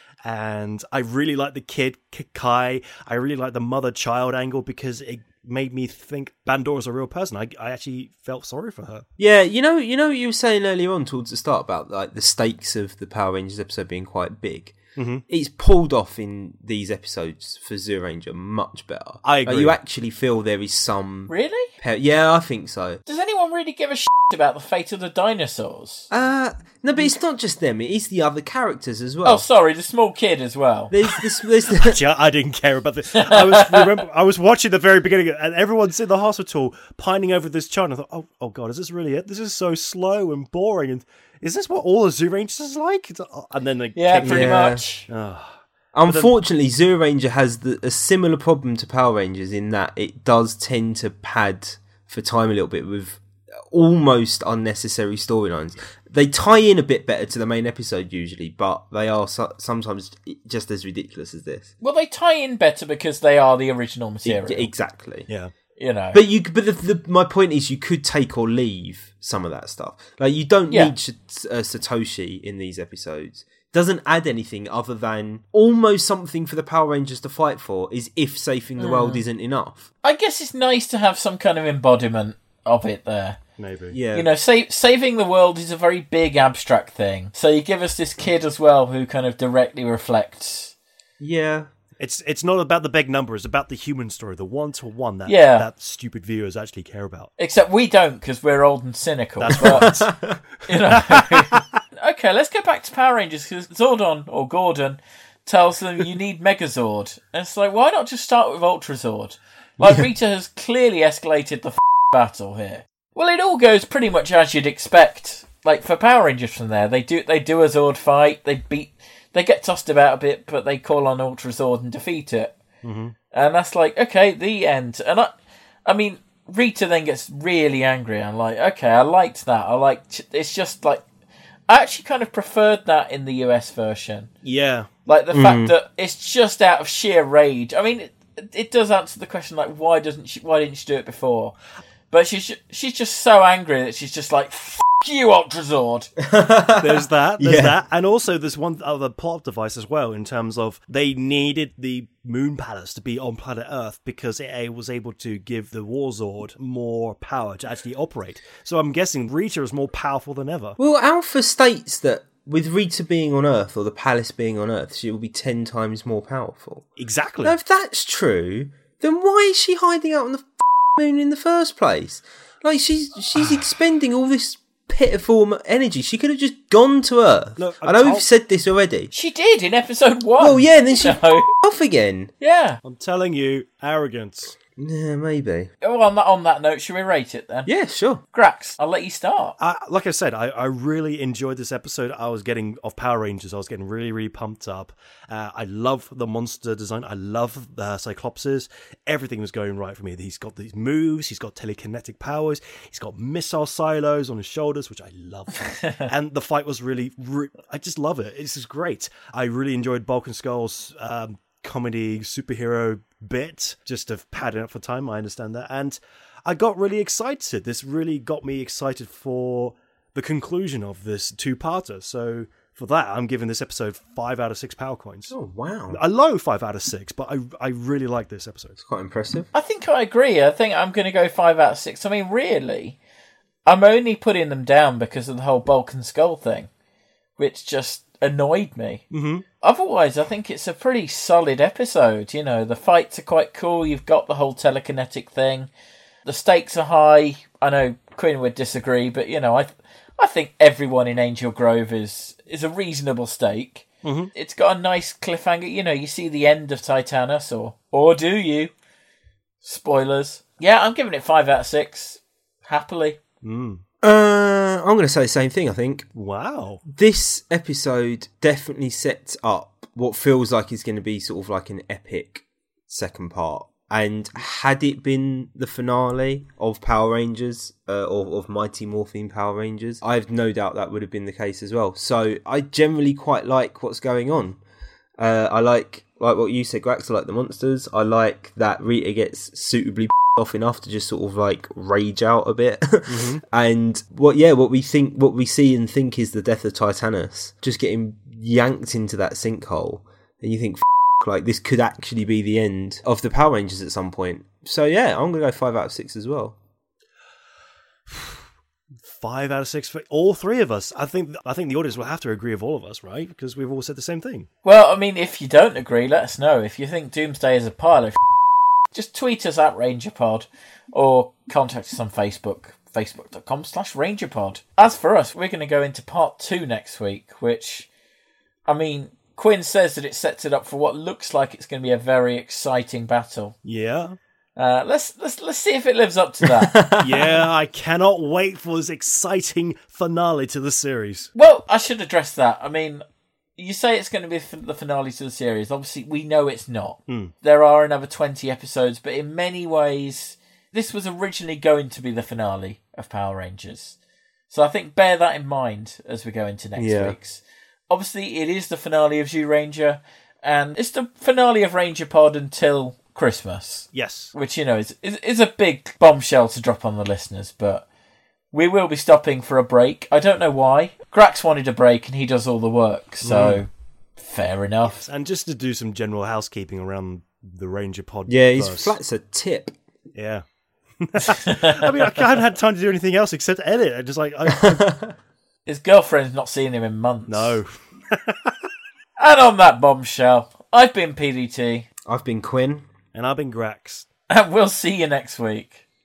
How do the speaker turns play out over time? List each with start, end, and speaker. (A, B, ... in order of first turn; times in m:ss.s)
0:00.2-0:09.0 A
0:09.2-0:14.8 B
0:15.0-0:15.2 A
0:15.3-0:23.0 B
0:19.2-0:19.8 A
0:21.3-0:21.7 C
0:23.0-0:26.1 C
0:26.1-0:29.4 B
0:29.2-0:30.9 C
0:30.9-0:32.0 B
0:31.8-0:46.3 A
0:33.1-0:33.9 C
0:44.0-0:45.1 C
0:44.1-0:44.8 B
0:45.9-1:01.7 B
1:01.8-1:04.7 C
1:04.2-1:05.3 B
1:05.8-1:06.2 C
1:06.1-1:19.9 B
1:18.8-1:19.2 C
1:20.0-1:23.4 C
1:23.6-1:24.0 A
1:23.9-1:24.3 B
1:24.1-1:30.7 C
1:31.2-1:31.7 B
1:32.0-1:37.3 A
1:35.2-1:35.7 C
1:37.4-1:40.0 C
1:39.4-1:40.1 A
1:39.7-1:40.4 B
1:40.7-2:02.6 C
1:40.9-1:41.6 A
1:49.8-1:50.1 B
2:02.8-2:03.1 A
2:03.3-2:05.3 C
2:05.8-2:11.0 C
2:11.7-2:14.3 C
2:14.4-2:14.9 A
2:15.0-2:21.6 C
2:15.3-2:15.7 B
2:22.1-2:26.1 C
2:26.2-2:27.8 B
2:26.8-2:40.8 A
2:40.8-2:46.8 B
2:47.0-2:47.6 A
2:47.4-2:59.1 B
2:57.6-2:58.2 A
2:59.1-3:01.5 C
3:00.4-3:02.3 B
3:02.4-3:02.8 C
3:02.8-3:04.6 A
3:04.8-3:05.7 B
3:05.8-3:07.7 C
3:07.6-3:08.2 B
3:08.3-3:09.6 C
3:09.6-3:45.3 A
3:25.8-3:26.1 C
3:45.3-3:46.0 B
3:45.9-3:48.8 A
3:48.8-3:49.5 B
3:49.5-3:53.0 C
3:53.6-3:56.7 C
3:57.4-3:59.0 C
3:59.1-3:59.4 A
3:59.6-4:05.7 C
4:06.2-4:18.7 C
4:14.0-4:14.3 A
4:19.6-4:23.2 C
4:23.4-4:23.8 A
4:24.0-4:26.0 B
4:26.1-4:26.8 A
4:26.8-4:44.6 B
4:45.2-5:06.6 B
4:53.1-4:53.4 A
5:08.1-5:08.4 A
5:09.0-5:14.5 A
5:14.6-5:18.2 C
5:18.9-5:27.9 C
5:28.7-5:33.6 C
5:33.6-5:34.2 A
5:34.6-5:36.8 C
5:36.6-5:37.4 B
5:37.0-5:41.3 A
5:41.3-5:43.0 C
5:43.6-5:54.0 C
5:47.1-5:47.3 A
5:54.5-6:07.8 C
5:56.8-5:57.2 B
6:03.9-6:04.3 A
6:08.5-6:15.0 C
6:13.3-6:13.6 A
6:14.9-6:19.0 A
6:18.3-6:19.7 B
6:20.1-6:20.4 A
6:21.0-6:24.9 A
6:21.2-6:22.1 C
6:24.6-6:25.1 B
6:25.6-6:27.6 C
6:27.3-6:28.5 A
6:29.2-6:31.8 C
6:32.0-6:32.9 B
6:33.1-6:34.0 A
6:34.3-6:35.8 C